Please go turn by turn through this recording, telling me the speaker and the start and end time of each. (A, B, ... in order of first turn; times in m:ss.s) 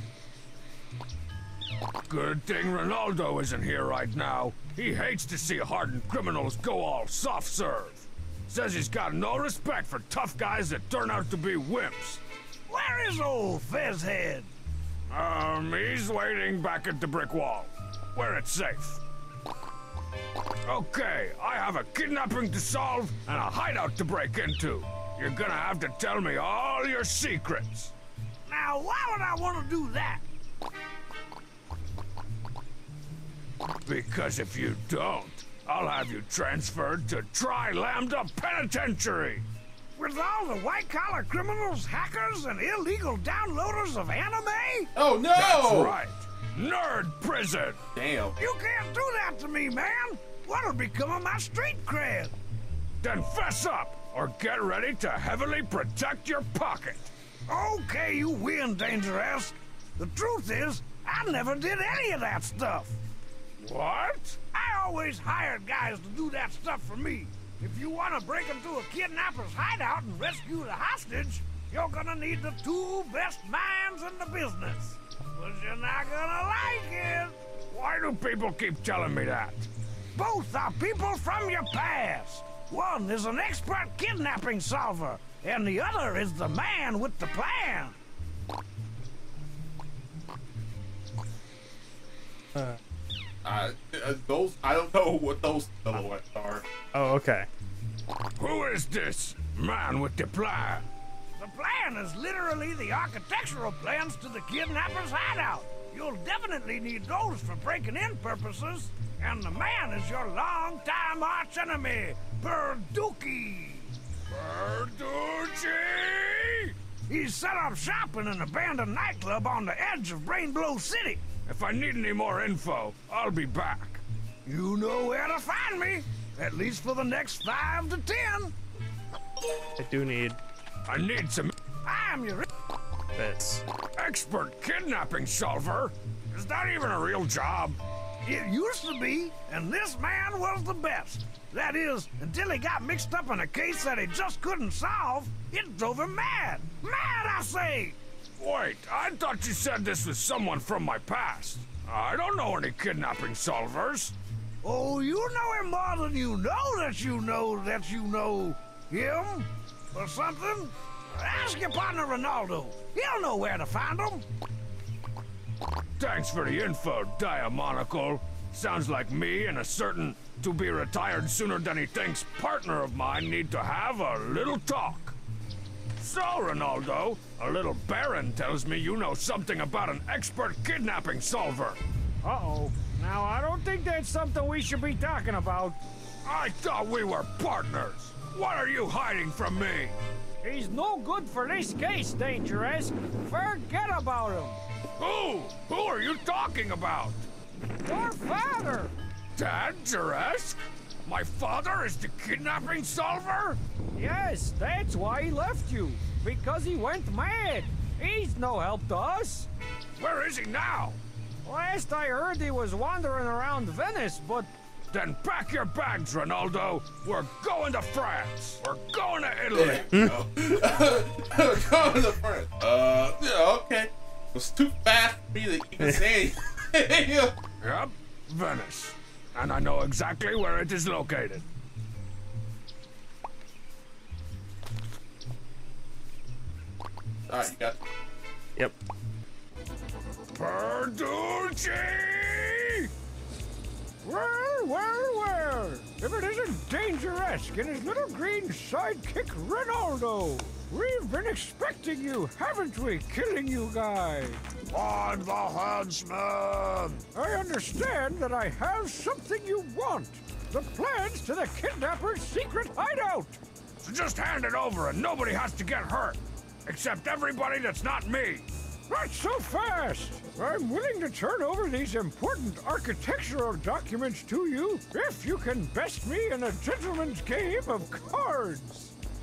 0:02.1-0:12.2 A
0:12.7-0:14.5 B
0:15.1-0:19.0 A
0:20.6-0:27.9 A
0:28.5-0:30.2 B
0:33.8-0:39.4 A
0:40.0-0:44.9 B
0:44.9-0:46.0 C
0:45.3-0:47.8 A
0:47.9-0:48.4 C
0:48.4-0:52.3 B
0:53.0-0:57.1 A
0:57.5-1:03.0 B
1:03.6-1:04.4 A
1:04.5-1:17.4 B
1:17.7-1:19.7 A
1:20.1-1:28.0 B
1:32.5-1:32.8 D
1:33.4-1:36.6 C
1:36.9-1:37.5 D
1:38.4-1:40.9 A
1:41.4-1:53.9 B
1:54.3-1:56.7 A
1:57.1-2:01.2 B
2:01.4-2:04.0 A
2:04.4-2:08.5 B
2:09.8-2:10.4 D
2:10.8-2:11.5 A
2:11.8-2:12.4 B
2:13.1-2:13.6 D
2:14.0-2:17.8 A
2:18.2-2:28.0 B
2:28.4-2:34.1 A
2:34.6-2:44.2 B
2:46.0-2:55.2 A
2:56.0-3:01.8 A
3:02.2-3:05.8 E
3:06.2-3:10.0 A
3:10.4-3:14.6 E
3:15.0-3:17.2 A
3:17.8-3:18.9 E
3:19.4-3:23.6 A
3:24.0-3:29.5 E
3:30.0-3:31.0 A
3:31.4-3:34.5 E
3:34.9-3:39.8 A
3:39.5-3:47.3 C
3:39.9-3:40.2 D
3:45.8-3:46.1 D
3:47.6-3:51.4 A
3:57.3-3:57.8 C
4:00.3-4:02.9 A
4:04.0-4:14.4 E
4:14.7-4:17.0 A
4:17.1-4:23.4 E
4:23.8-4:28.5 A
4:28.9-4:38.9 E